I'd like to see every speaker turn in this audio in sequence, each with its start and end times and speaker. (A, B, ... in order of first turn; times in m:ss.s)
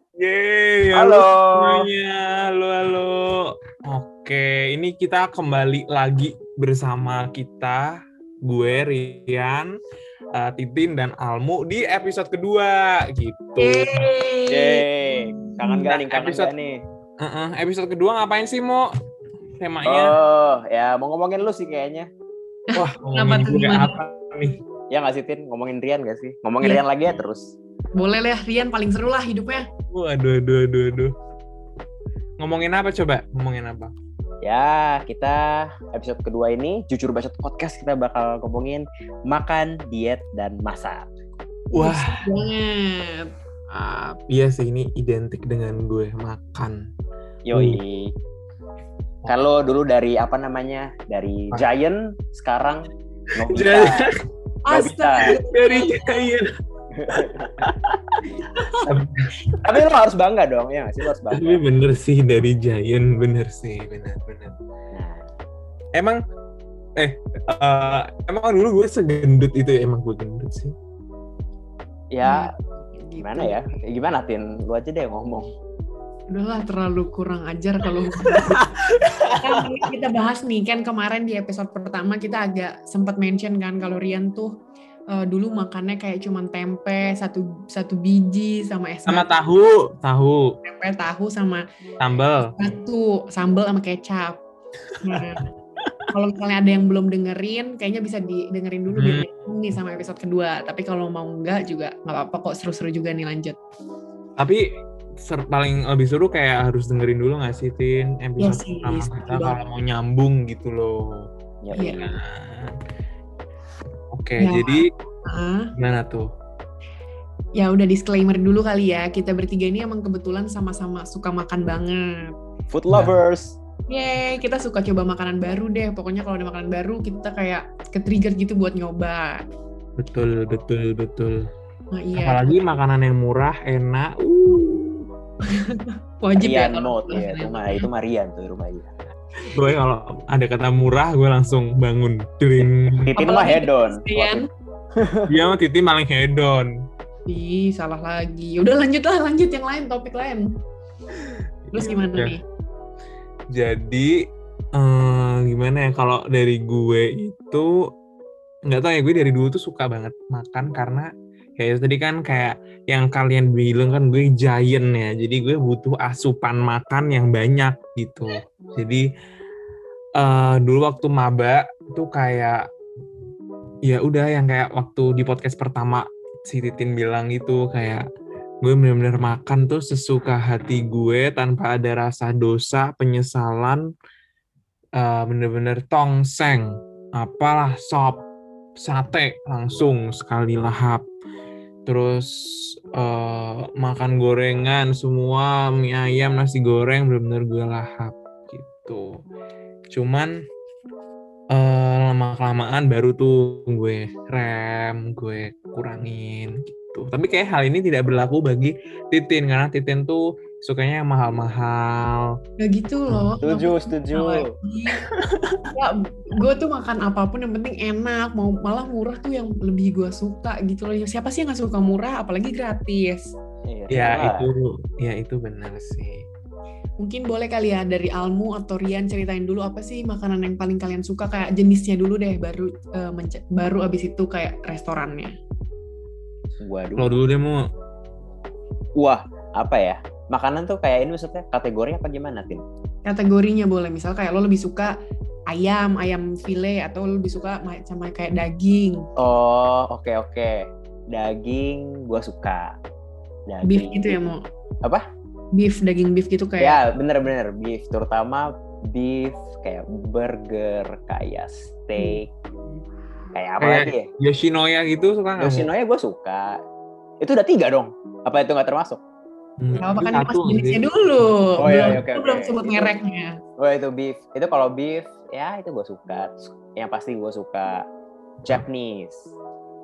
0:00.2-0:09.7 A
0:00.9-0:01.9 B
0:10.3-0:14.1 A
0:13.6-0:15.8 C
0:14.5-0:16.8 B
0:15.8-0:16.5 A
0:17.2-0:18.9 A
0:19.6-0:20.2 A
0:19.8-0:22.1 B
0:22.7-0:23.9 C
0:22.8-0:24.6 A
0:24.9-0:27.6 B
0:28.0-0:29.7 C
0:29.9-0:31.1 A
0:32.4-0:33.9 A
0:34.4-0:41.1 B
0:41.7-0:43.3 C
0:41.7-0:42.5 A
0:43.7-0:46.9 A
0:47.4-0:48.1 B
0:47.5-0:47.8 A
0:49.3-0:54.1 B
0:53.4-0:54.2 A
0:54.6-0:56.0 C
0:54.7-0:55.4 B
0:55.3-0:56.5 A
0:56.9-0:57.7 B
0:57.1-0:59.8 A
0:58.5-0:58.9 C
0:59.6-1:01.6 B
1:01.3-1:04.6 A
1:04.9-1:05.3 B
1:07.0-1:10.8 A
1:12.1-1:12.5 B
1:12.2-1:13.8 C
1:13.2-1:15.5 B
1:16.3-1:18.7 C
1:18.2-1:19.4 A
1:19.3-1:24.5 C
1:25.1-1:29.3 C
1:29.1-1:30.6 A
1:30.6-1:31.6 C
1:32.0-1:32.5 A
1:32.4-1:34.4 C
1:35.0-1:35.5 C
1:36.1-1:43.6 C
1:38.9-1:39.3 A
1:44.4-1:44.6 A
1:45.2-1:51.3 A
1:48.4-1:49.6 C
1:51.6-1:52.2 B
1:51.7-1:52.1 C
1:52.0-1:52.8 A
1:54.1-1:54.9 A
1:54.4-1:55.7 C
1:55.8-1:56.3 A
1:57.6-2:02.3 C
2:02.7-2:03.6 B
2:02.9-2:03.2 A
2:03.9-2:09.4 C
2:10.0-2:11.5 A
2:11.9-2:12.5 C
2:12.2-2:15.1 A
2:15.5-2:17.9 C
2:16.4-2:18.9 B
2:19.5-2:23.1 A
2:22.6-2:25.3 B
2:23.2-2:24.5 C
2:25.3-2:26.7 A
2:27.3-2:30.5 C
2:31.3-2:32.4 A
2:31.7-2:32.4 C
2:33.5-2:34.2 A
2:34.7-2:37.9 A
2:38.7-2:49.0 A
2:50.2-2:52.7 A
2:53.8-2:58.0 A
2:58.6-3:03.8 A
3:05.0-3:08.2 A
3:08.8-3:11.0 A
3:11.9-3:19.1 A
3:19.9-3:20.3 A
3:21.5-3:32.4 A
3:32.6-3:35.0 C
3:33.1-3:33.4 A
3:33.4-3:34.5 B
3:35.4-3:35.7 A
3:35.7-3:43.4 C
3:43.7-3:44.5 B
3:43.9-3:46.2 A
3:47.0-3:55.3 C
3:56.6-3:57.1 B
3:57.0-3:57.6 A
3:59.0-4:02.6 B
4:03.0-4:05.0 C
4:05.5-4:09.1 C
4:09.2-4:12.8 B
4:13.5-4:14.3 B
4:13.6-4:14.4 C
4:15.5-4:16.8 C
4:16.6-4:22.3 B
4:23.3-4:24.1 B
4:23.6-4:25.7 A
4:25.4-4:26.6 B
4:27.2-4:29.0 B
4:29.6-4:32.0 A
4:29.8-4:33.4 C
4:31.6-4:32.9 B
4:33.6-4:37.9 B
4:38.4-4:39.3 B